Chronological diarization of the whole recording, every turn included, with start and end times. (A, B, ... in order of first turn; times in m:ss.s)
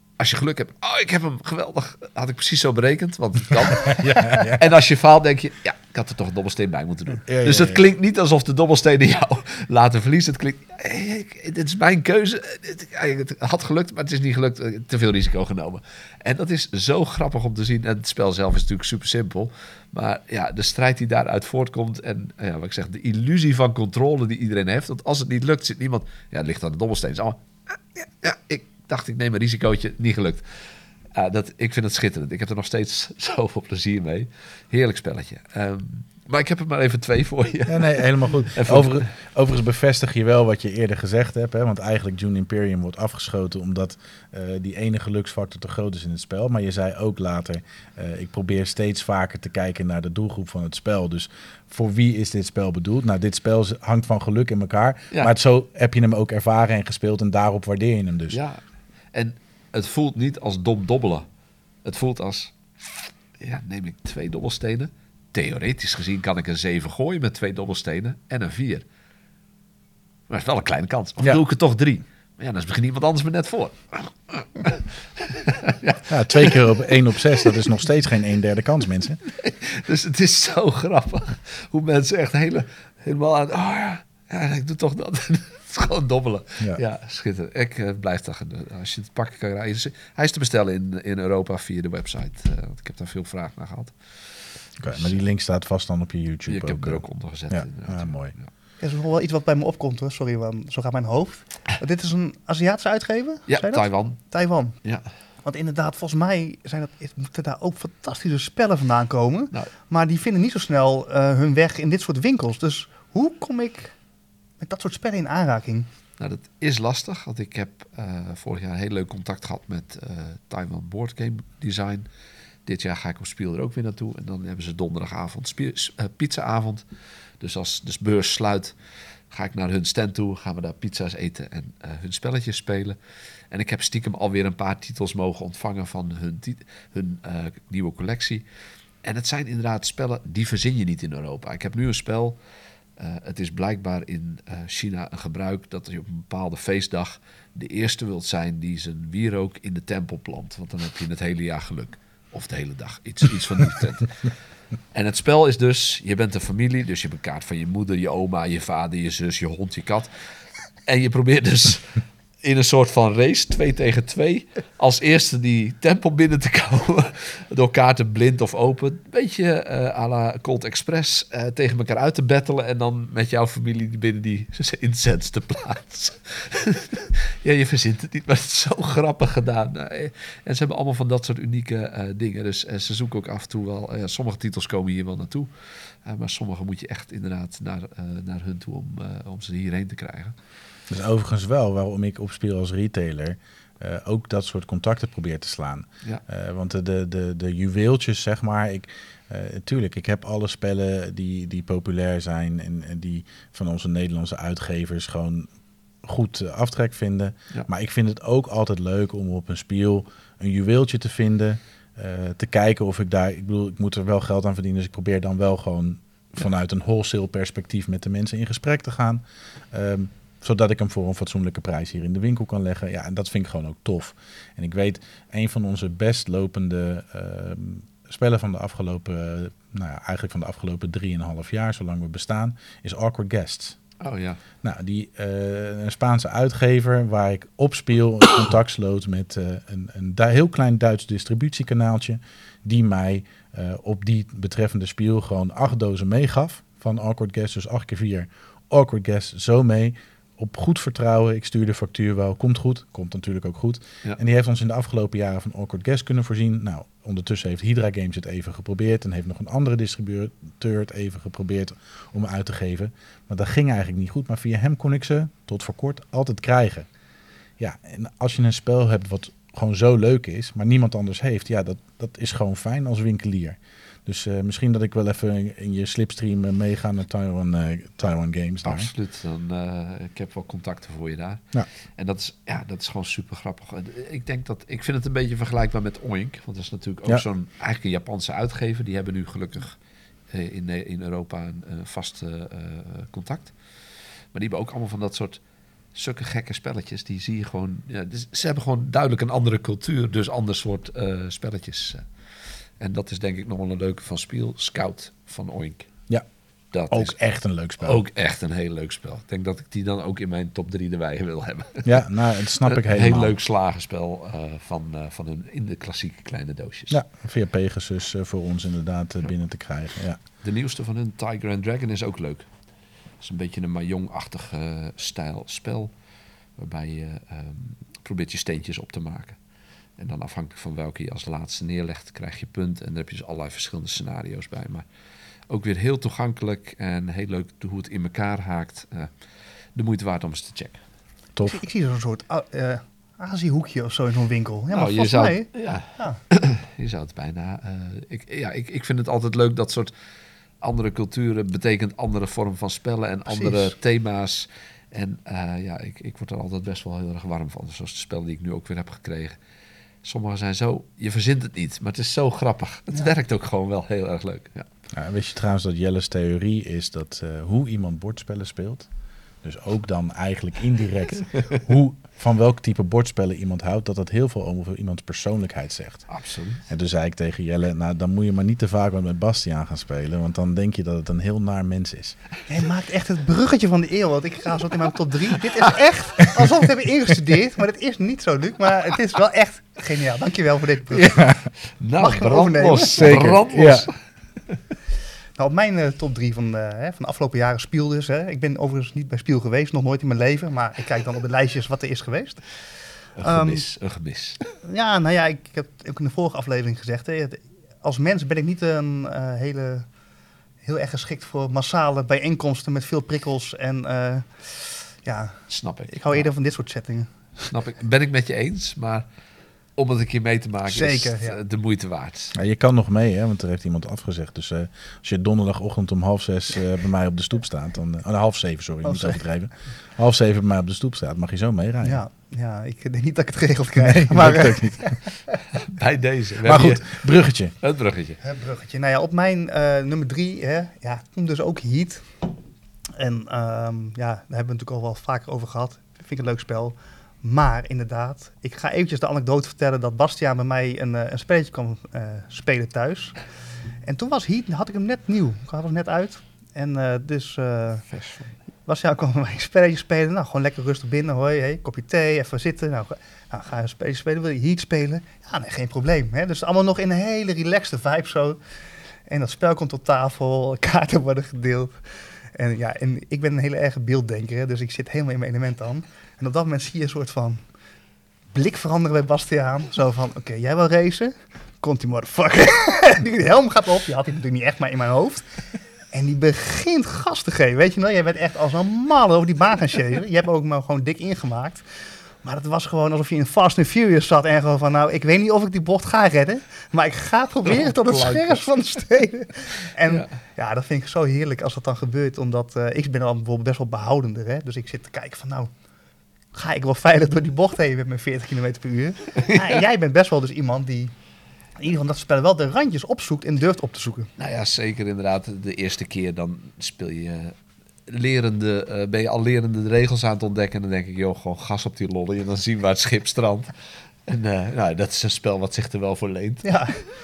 0:00.2-0:30.4 A
0:03.8-0:04.8 B
0:07.3-0:07.8 B
0:31.1-0:39.1 A
0:37.6-0:58.4 B
0:58.3-0:58.6 A
0:59.1-1:01.2 A
1:01.8-1:02.5 A
1:03.4-1:08.8 A
1:10.3-1:16.7 A
1:16.1-1:19.2 B
1:19.3-1:33.9 A
1:34.8-1:38.3 B
1:34.8-1:35.2 A
1:36.5-1:38.5 A
1:38.8-1:44.8 C
1:43.5-1:44.2 A
1:45.4-1:53.9 C
1:54.6-1:55.9 C
1:56.2-2:02.1 A
2:02.6-2:06.8 A
2:07.4-2:08.7 A
2:09.3-2:13.0 A
2:13.5-2:18.4 A
2:19.0-2:22.4 A
2:23.0-2:34.3 A
2:34.9-2:40.1 A
2:40.8-3:05.5 A
3:06.0-3:10.3 A
3:10.9-3:25.5 B
3:26.0-3:53.8 B
3:54.0-3:54.4 A
3:54.6-4:26.9 B
4:27.6-4:38.9 B
4:38.6-4:41.4 A
4:42.0-4:49.8 A
4:50.3-4:53.5 A
4:54.3-4:55.4 A
4:55.9-5:02.0 A
5:02.8-5:05.9 A
5:06.7-5:07.1 A
5:06.9-5:08.0 B
5:07.8-5:12.0 A
5:11.8-5:13.3 B
5:12.6-5:17.0 A
5:16.9-5:20.2 B
5:20.4-5:22.5 A
5:23.2-5:25.9 A
5:26.6-5:29.4 A
5:30.0-5:34.8 A
5:35.5-5:39.1 A
5:39.7-5:40.8 A
5:41.4-5:41.6 B
5:41.4-5:46.2 C
5:44.7-5:49.9 A
5:50.6-5:59.4 A
5:53.3-5:53.7 C
6:00.0-6:04.7 A
6:04.9-6:08.9 B
6:09.4-6:16.1 B
6:16.1-6:16.6 A
6:16.7-6:22.2 B
6:22.5-6:31.2 C
6:30.9-6:31.5 B
6:31.8-6:33.9 A
6:32.0-6:33.1 C
6:32.8-6:33.9 B
6:35.4-6:42.4 C
6:43.2-6:44.4 A
6:43.2-6:43.6 C
6:44.6-6:49.9 C
6:50.6-6:57.5 C
6:55.5-6:56.2 A
6:57.5-6:59.0 A
6:59.8-7:02.3 A
7:00.7-7:01.4 C
7:02.3-7:12.0 B
7:08.8-7:09.2 C
7:11.8-7:15.4 C
7:13.8-7:14.9 B
7:15.5-7:17.0 A
7:16.4-7:17.5 B
7:17.6-7:18.2 A
7:18.2-7:22.1 C
7:23.0-7:33.2 C
7:33.8-7:37.8 C
7:37.9-7:38.3 A
7:38.6-7:48.4 C
7:49.1-7:51.8 C
7:52.3-7:57.4 C
7:58.3-8:05.2 C
8:05.9-8:11.6 C
8:12.2-8:25.5 C
8:17.4-8:18.4 A
8:26.3-8:30.9 C
8:29.3-8:29.6 A
8:31.6-8:34.1 C
8:34.2-8:37.3 A
8:37.9-8:43.5 A
8:44.1-8:46.6 A
8:46.4-8:46.8 C